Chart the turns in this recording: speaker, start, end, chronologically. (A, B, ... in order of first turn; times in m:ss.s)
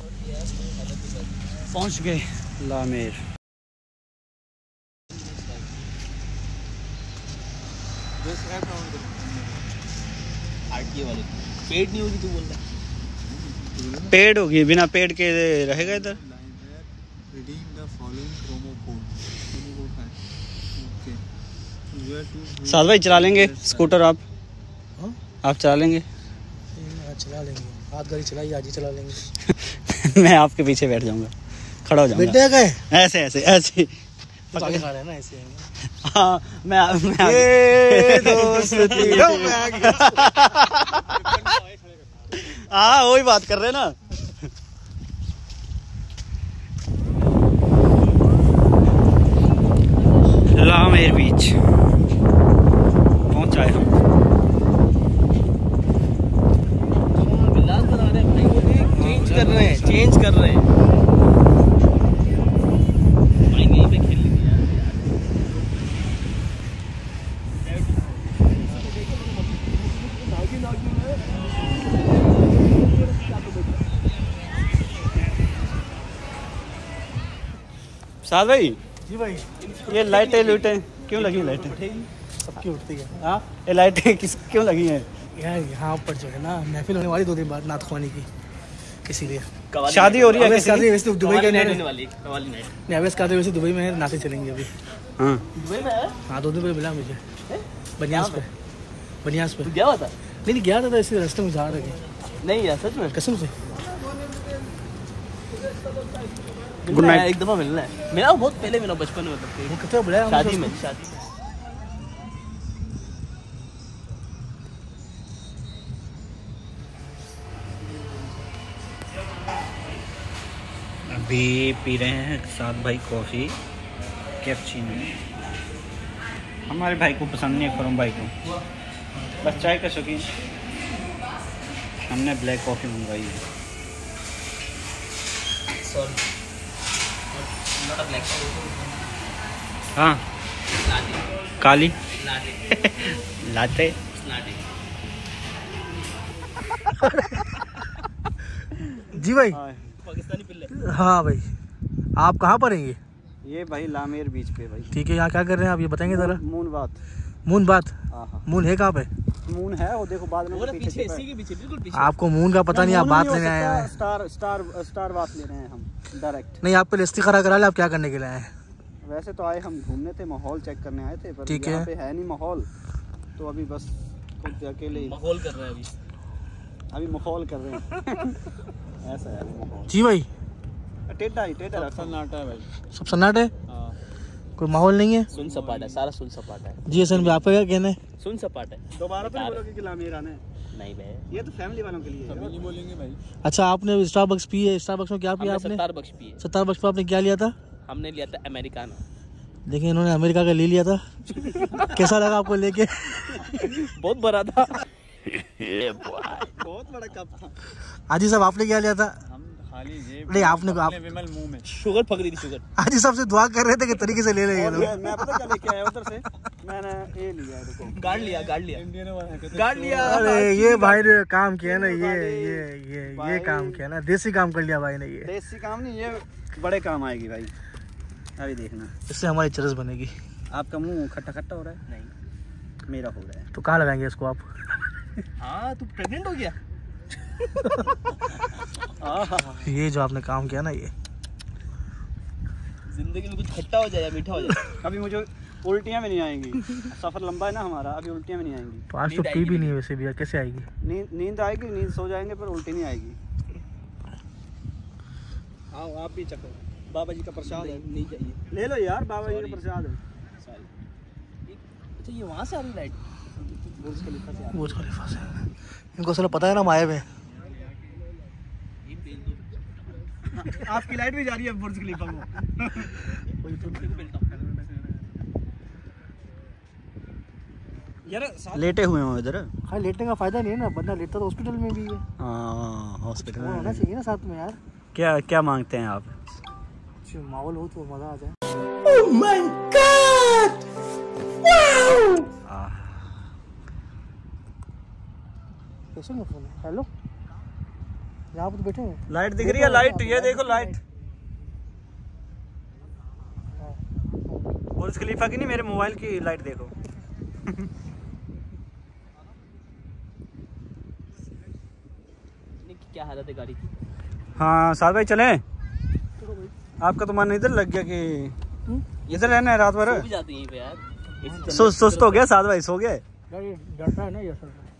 0:00.3-0:01.4 A
0:01.7-0:03.2 B
0:08.2-0:09.7 C
0:10.7-0:12.6 A
0:13.3-0:14.1 C
0:14.1-0:16.2 B
0:15.6-0:20.2 C
0:20.8-0:21.2 C
0:21.9-0:24.0 C
0:22.7-0:24.2 B
0:25.4-0:26.0 B
0:26.8-0:29.3 D
0:29.7-0:31.3 B
0:31.8-0:33.9 B
0:32.1-0:32.8 D
0:34.5-0:35.7 D
0:34.5-0:34.8 B
0:36.0-0:41.6 B
0:37.2-0:40.2 D
0:42.4-0:44.0 B
0:50.5-0:51.6 B
0:53.3-0:53.9 B
0:57.1-1:00.7 A
0:58.9-1:00.1 D
1:03.5-1:05.4 A
1:08.6-1:11.4 A
1:12.2-1:13.9 A
1:18.2-1:18.8 B
1:19.1-1:19.5 D
1:19.6-1:22.1 A
1:19.9-1:21.8 B
1:22.4-1:23.2 D
1:23.2-1:25.1 B
1:25.4-1:28.3 D
1:29.1-1:29.5 D
1:29.7-1:32.8 A
1:29.9-1:30.9 B
1:30.3-1:31.8 D
1:32.9-1:34.8 D
1:35.2-1:35.4 B
1:35.5-1:36.2 A
1:36.3-1:37.2 D
1:37.5-1:38.4 A
1:38.0-1:38.5 D
1:39.2-1:39.7 D
1:39.6-1:40.1 A
1:40.4-1:42.0 D
1:42.4-1:43.2 A
1:43.1-1:43.5 D
1:46.8-1:51.3 A
1:46.9-1:47.3 B
1:49.7-1:50.8 D
2:01.1-2:03.6 B
2:04.4-2:05.1 B
2:06.7-2:08.3 B
2:09.4-2:10.3 B
2:12.0-2:13.4 B
2:15.8-2:16.2 A
2:17.3-2:18.9 A
2:20.0-2:20.2 B
2:20.8-2:21.3 A
2:21.6-2:22.0 B
2:22.0-2:22.9 A
2:23.4-2:24.0 B
2:24.1-2:24.6 A
2:29.1-2:29.6 D
2:29.5-2:29.9 B
2:30.0-2:30.8 A
2:30.8-2:31.5 D
2:32.2-2:33.0 D
2:33.4-2:34.9 B
2:34.9-2:36.4 D
2:36.1-2:37.0 B
2:37.4-2:39.1 D
2:38.1-2:38.4 B
2:39.4-2:41.2 B
2:40.5-2:42.1 A
2:41.9-2:43.9 D
2:42.7-2:46.6 B
2:46.6-2:48.5 D
2:49.0-2:52.7 B
2:51.4-2:51.9 D
2:53.4-2:55.2 B
2:54.9-2:55.9 A
2:56.9-2:58.4 B
2:59.0-2:59.9 B
2:59.9-3:00.3 D
3:01.1-3:02.2 B
3:01.7-3:02.7 C
3:02.9-3:03.5 D
3:03.7-3:04.0 C
3:04.6-3:05.3 D
3:05.3-3:06.0 C
3:05.3-3:07.4 A
3:06.8-3:08.0 D
3:08.2-3:09.6 A
3:08.9-3:10.4 B
3:10.7-3:11.3 A
3:11.3-3:12.6 B
3:12.2-3:13.2 C
3:13.4-3:15.8 D
3:15.4-3:16.4 A
3:16.4-3:17.5 D
3:17.8-3:19.0 A
3:19.7-3:23.5 D
3:23.5-3:24.8 A
3:25.6-3:26.5 A
3:26.6-3:27.5 B
3:28.1-3:29.2 D
3:29.2-3:31.7 C
3:30.3-3:31.1 D
3:31.6-3:32.6 A
3:32.8-3:35.1 D
3:34.5-3:38.0 B
3:37.9-3:38.8 A
3:38.0-3:40.3 C
3:39.5-3:40.4 A
3:40.0-3:45.3 D
3:40.3-3:41.1 B
3:41.6-3:43.8 B
3:45.2-3:47.5 B
3:48.4-3:48.9 B
3:49.1-3:50.2 D
3:50.5-3:51.8 B
3:51.9-3:52.1 A
3:52.8-3:53.5 B
3:53.5-3:54.4 D
3:55.4-3:56.6 A
3:59.0-3:59.6 B
3:59.6-4:00.9 D
4:02.9-4:04.6 A
4:04.8-4:08.8 B
4:08.9-4:10.7 D
4:09.0-4:09.8 A
4:10.8-4:13.2 B
4:15.7-4:16.6 A
4:16.9-4:17.8 B
4:17.4-4:18.4 A
4:18.5-4:20.0 B
4:19.2-4:19.6 A
4:21.5-4:23.0 A
4:23.8-4:24.5 A
4:24.5-4:27.1 D
4:28.8-4:30.0 A
4:30.4-4:33.0 B
4:33.4-4:34.4 A
4:38.1-4:39.5 B
4:39.7-4:42.0 D
4:42.2-4:43.9 B
4:43.2-4:44.6 D
4:44.9-4:46.1 B
4:47.0-4:48.4 D
4:52.5-4:53.1 B
4:56.0-4:56.9 D
4:58.3-5:00.4 D
4:59.1-5:00.8 B
5:04.8-5:06.7 B
5:12.6-5:13.7 A
5:14.4-5:15.4 B
5:16.8-5:18.4 B
5:18.7-5:22.3 A
5:19.1-5:20.1 B
5:21.5-5:23.0 B
5:23.3-5:24.7 D